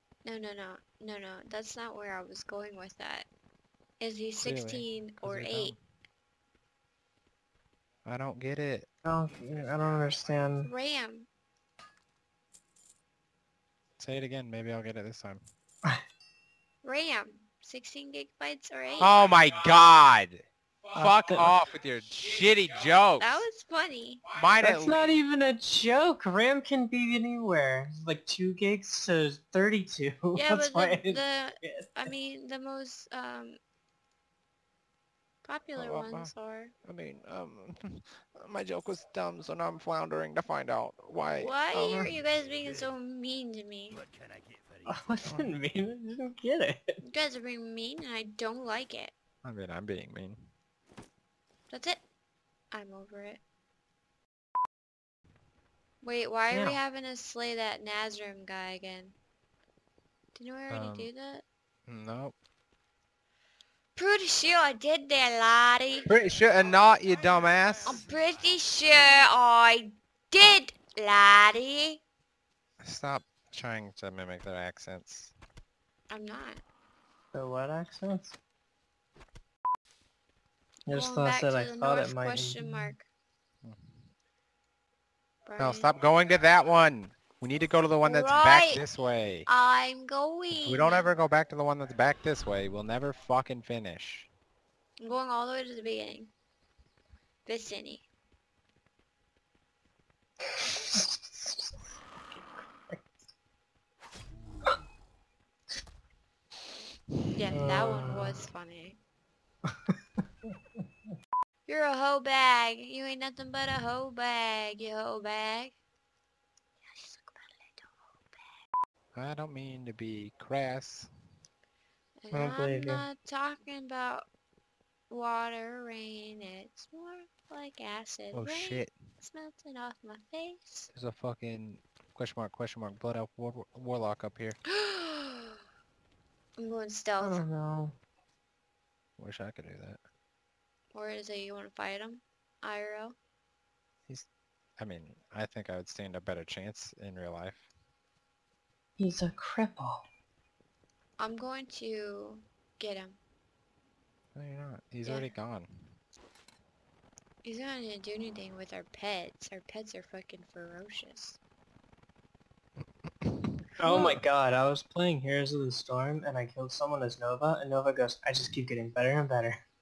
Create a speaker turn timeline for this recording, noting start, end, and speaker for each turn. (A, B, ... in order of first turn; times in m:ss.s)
0:00.2-0:03.3 A
0:04.0-0:05.8 A
0:04.4-0:05.8 B
0:08.0-0:08.9 B
0:09.0-0:10.7 C
0:10.6-0:11.3 A
0:14.0-0:15.4 B
0:16.8-0:19.2 A
0:19.0-0:23.5 B
0:21.0-0:21.6 C
0:23.2-0:24.2 A
0:24.3-0:25.1 B
0:24.6-0:32.1 C
0:30.4-0:33.6 A
0:35.4-0:36.7 A
0:35.8-0:36.3 B
0:36.8-0:41.9 B
0:41.4-0:44.0 A
0:41.8-0:42.0 C
0:42.3-0:42.9 D
0:44.1-0:45.3 D
0:44.9-0:47.0 C
0:47.0-0:49.2 A
0:49.4-0:50.5 B
0:51.7-0:52.0 A
0:52.7-0:53.4 A
0:56.0-0:59.2 A
0:56.5-0:56.8 C
1:00.3-1:01.4 A
1:00.7-1:01.1 B
1:01.9-1:02.4 B
1:04.0-1:06.1 A
1:06.1-1:08.0 B
1:06.9-1:07.6 D
1:07.8-1:12.0 A
1:12.8-1:15.3 B
1:16.1-1:16.6 A
1:17.3-1:18.4 C
1:20.9-1:22.9 C
1:20.9-1:23.1 A
1:23.6-1:24.0 B
1:25.4-1:25.9 A
1:25.6-1:29.5 B
1:28.0-1:28.8 A
1:29.5-1:31.1 A
1:30.5-1:34.3 B
1:35.0-1:36.3 A
1:37.5-1:38.1 A
1:40.6-1:41.7 C
1:42.3-1:43.0 C
1:47.4-1:49.0 A
1:47.5-1:48.4 C
1:51.7-1:55.8 A
1:56.8-1:58.4 A
1:59.2-2:01.1 B
2:02.2-2:04.3 A
2:02.3-2:03.1 C
2:05.1-2:10.9 A
2:08.3-2:09.0 B
2:10.9-2:14.6 B
2:14.8-2:15.6 A
2:16.6-2:17.4 A
2:17.2-2:18.0 C
2:19.2-2:20.0 B
2:20.9-2:23.2 A
2:24.8-2:27.7 B
2:29.0-2:30.0 C
2:31.2-2:33.2 A
2:34.4-2:35.9 B
2:35.0-2:35.3 A
2:37.4-2:41.4 A
2:43.2-2:44.2 B
2:43.8-2:49.6 C
2:43.9-2:44.2 A